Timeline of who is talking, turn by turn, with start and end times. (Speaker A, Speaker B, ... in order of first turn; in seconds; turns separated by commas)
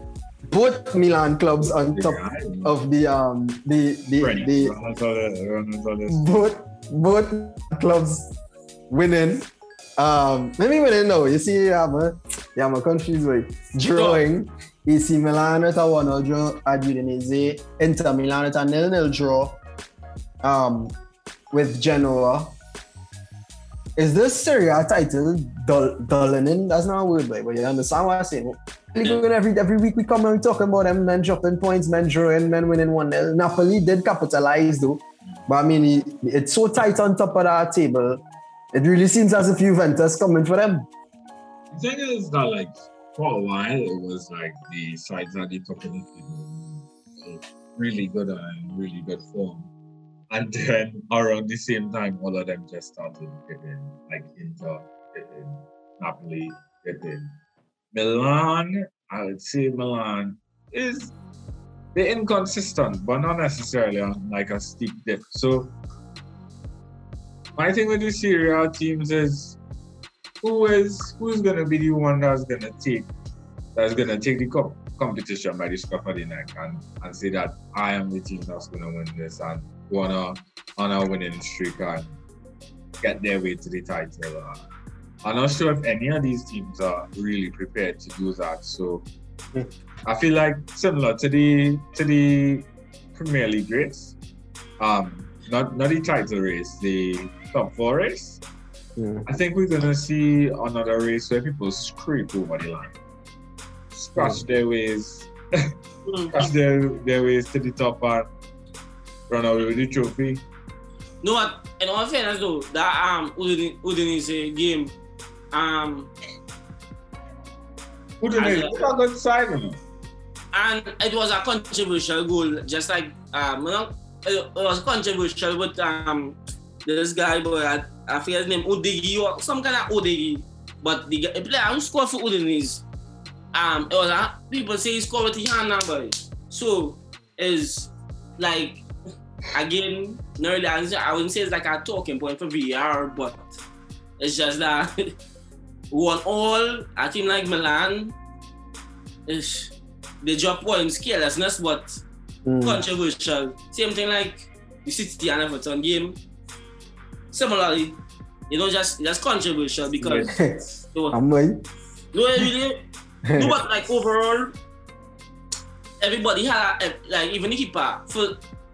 Speaker A: 0.5-4.7, Speaker B: 1.6-2.7, Speaker B: 4.2-6.2, Speaker A: 6.1-8.3, Speaker A: 8.9-19.6, Speaker B: 13.9-14.2, Speaker A: 20.4-20.9, Speaker A: 21.5-22.6, Speaker A: 23.9-38.2, Speaker A: 38.7-40.9, Speaker B: 41.7-49.7, Speaker B: 50.3-57.3, Speaker B: 57.9-61.1, Speaker B: 61.9-65.7, Speaker B: 67.5-69.6, Speaker B: 70.4-73.1, Speaker B: 73.7-82.1, Speaker B: 83.0-84.7, Speaker B: 85.2-89.0, Speaker B: 90.0-94.2, Speaker B: 94.8-98.4, Speaker A: 99.0-99.2, Speaker B: 99.2-102.9, Speaker B: 103.9-105.7, Speaker A: 104.2-104.4, Speaker C: 106.0-106.3, Speaker B: 106.3-108.3, Speaker B: 109.3-110.4, Speaker C: 111.2-114.9, Speaker C: 115.5-116.1, Speaker B: 118.2-119.8, Speaker C: 118.3-118.9, Speaker C: 120.5-132.8, Speaker C: 133.5-138.8, Speaker C: 139.5-143.5, Speaker C: 144.2-145.1, Speaker C: 145.9-148.1, Speaker C: 149.3-152.0, Speaker A: 152.4-152.8, Speaker C: 152.6-156.2, Speaker C: 157.3-160.3, Speaker A: 160.1-161.6, Speaker C: 162.1-162.8, Speaker A: 163.2-163.5, Speaker C: 163.3-164.5, Speaker C: 166.0-168.4